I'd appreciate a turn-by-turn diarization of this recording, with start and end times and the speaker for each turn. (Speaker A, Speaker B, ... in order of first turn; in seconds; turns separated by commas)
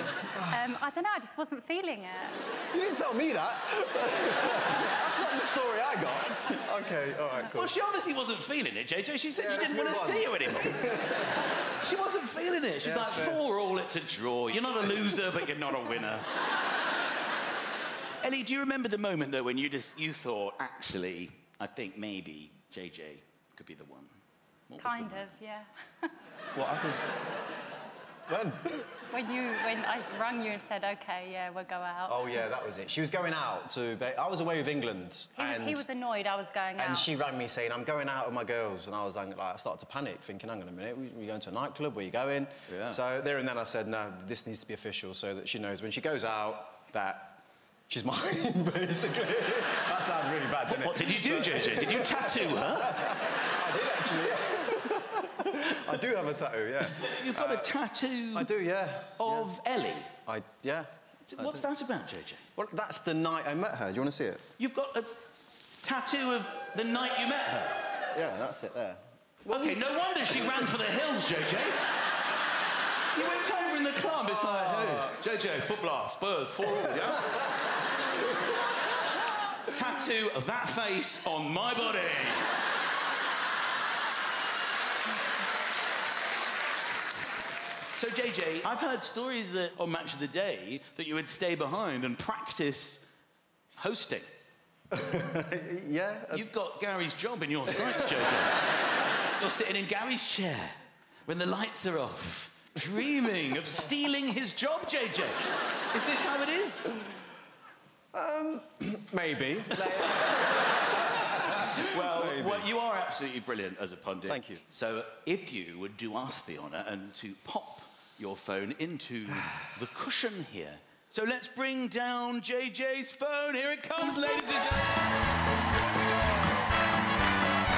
Speaker A: 0.5-2.4, Speaker B: 2.7-7.7, Speaker C: 7.4-10.9, Speaker B: 9.3-11.4, Speaker C: 11.8-16.3, Speaker B: 12.8-13.4, Speaker C: 18.2-24.2, Speaker C: 24.7-25.3, Speaker A: 24.8-25.7, Speaker B: 26.5-27.1, Speaker B: 28.3-28.9, Speaker A: 29.1-32.4, Speaker B: 32.1-35.9, Speaker A: 35.4-37.1, Speaker B: 36.8-57.8, Speaker C: 42.7-43.0, Speaker C: 50.7-53.0, Speaker C: 57.0-58.5, Speaker B: 58.3-59.5, Speaker C: 59.2-60.1, Speaker B: 60.2-61.7, Speaker C: 61.3-62.4, Speaker B: 62.5-64.4, Speaker C: 64.6-65.2, Speaker C: 65.8-67.8, Speaker B: 68.1-69.8, Speaker C: 69.4-71.8, Speaker C: 73.1-77.4, Speaker C: 79.7-82.5, Speaker C: 87.9-93.1, Speaker C: 93.8-94.3, Speaker B: 94.9-96.5, Speaker C: 96.3-98.6, Speaker C: 99.4-106.9, Speaker B: 108.1-112.7, Speaker C: 111.1-125.0, Speaker B: 114.2-114.6